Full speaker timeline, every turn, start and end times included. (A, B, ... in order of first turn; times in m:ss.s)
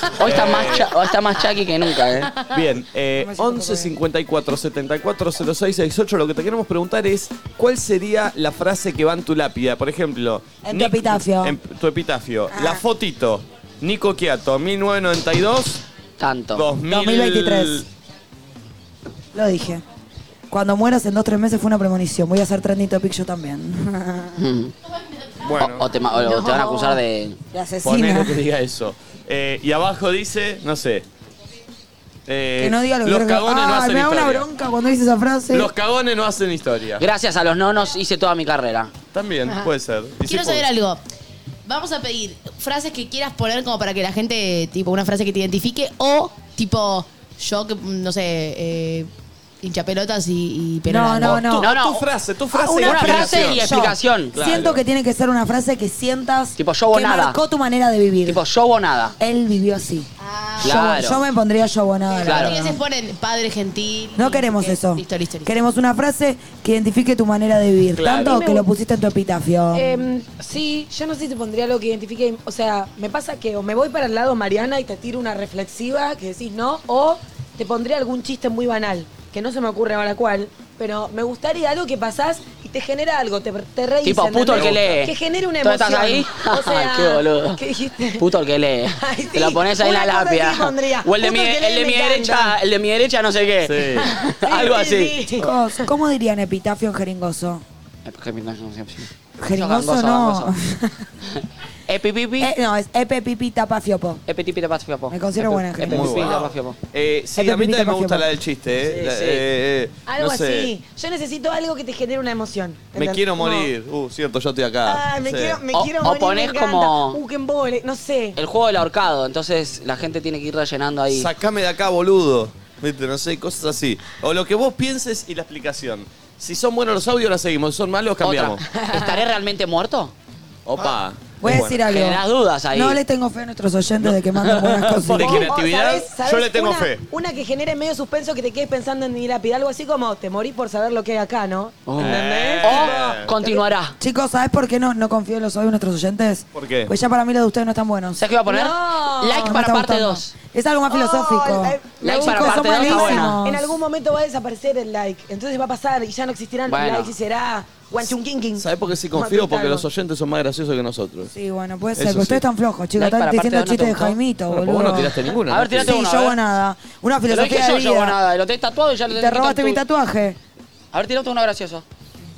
0:00.2-0:02.3 A
0:00.2-0:00.9 B
0:02.5-0:15.8 B
0:03.2-0:03.9 C
0:10.6-0:11.6 C
0:12.5-0:12.8 C
0:16.2-0:16.7 A
0:16.5-0:17.8 B
0:16.9-0:17.8 C
0:19.3-0:19.8 C
0:20.5-0:24.4 C
0:24.4-0:24.7 A
0:25.4-0:25.9 B
0:25.6-0:27.4 A
0:26.2-0:27.0 D
0:27.5-0:28.4 C
0:27.8-0:31.0 B
0:32.3-0:34.4 B
0:32.6-0:35.7 C
0:35.5-0:37.0 B
0:37.0-0:38.9 A
0:39.1-0:40.6 B
0:40.2-0:41.0 E
0:41.6-0:49.1 E
0:49.6-0:51.5 E
0:50.8-0:51.7 C
0:51.3-0:53.6 B
0:51.6-0:52.0 A
0:52.5-0:58.4 C
0:52.8-0:54.4 A
0:54.3-0:54.8 B
0:56.6-0:57.4 A
0:58.2-0:59.1 A
0:59.2-1:00.1 C
1:00.2-1:01.0 E
1:00.6-1:02.8 C
1:00.6-1:01.2 A
1:02.1-1:05.5 E
1:02.2-1:02.6 A
1:04.2-1:10.0 C
1:08.0-1:08.3 B
1:08.2-1:08.6 D
1:09.7-1:28.2 D
1:24.0-1:27.6 A
1:24.5-1:25.0 B
1:28.2-1:35.1 A
1:29.0-1:32.6 D
1:33.6-1:34.1 B
1:34.0-1:35.6 D
1:35.4-1:37.6 C
1:38.0-1:40.5 A
1:39.4-1:41.1 C
1:41.9-1:42.5 A
1:42.4-1:44.2 C
1:44.3-1:46.8 A
1:45.1-1:46.3 C
1:45.5-1:50.7 B
1:47.3-1:48.2 C
1:48.9-1:49.4 A
1:50.0-1:53.7 D
1:52.9-1:55.6 B
1:54.8-1:58.4 D
1:55.7-1:57.2 A
1:58.4-2:01.3 A
2:01.1-2:08.6 B
2:08.2-2:10.1 A
2:08.7-2:09.2 D
2:10.6-2:11.8 B
2:11.4-2:12.2 C
2:11.9-2:13.0 A
2:12.7-2:15.5 C
2:14.4-2:15.5 A
2:15.1-2:17.0 B
2:15.3-2:23.6 D
2:21.8-2:24.0 A
2:22.0-2:23.4 B
2:24.0-2:28.2 C
2:26.5-2:26.9 B
2:28.2-2:30.3 A
2:28.5-2:29.5 D
2:29.3-2:33.7 C
2:30.9-2:39.8 D
2:32.0-2:33.4 A
2:36.7-2:37.1 A
2:38.6-2:41.3 B
2:41.3-2:48.2 C
2:42.0-2:42.4 B
2:43.0-2:44.2 A
2:44.5-2:46.0 B
2:45.5-2:46.4 A
2:47.3-2:49.8 A
2:49.1-2:50.4 C
2:50.9-2:51.8 A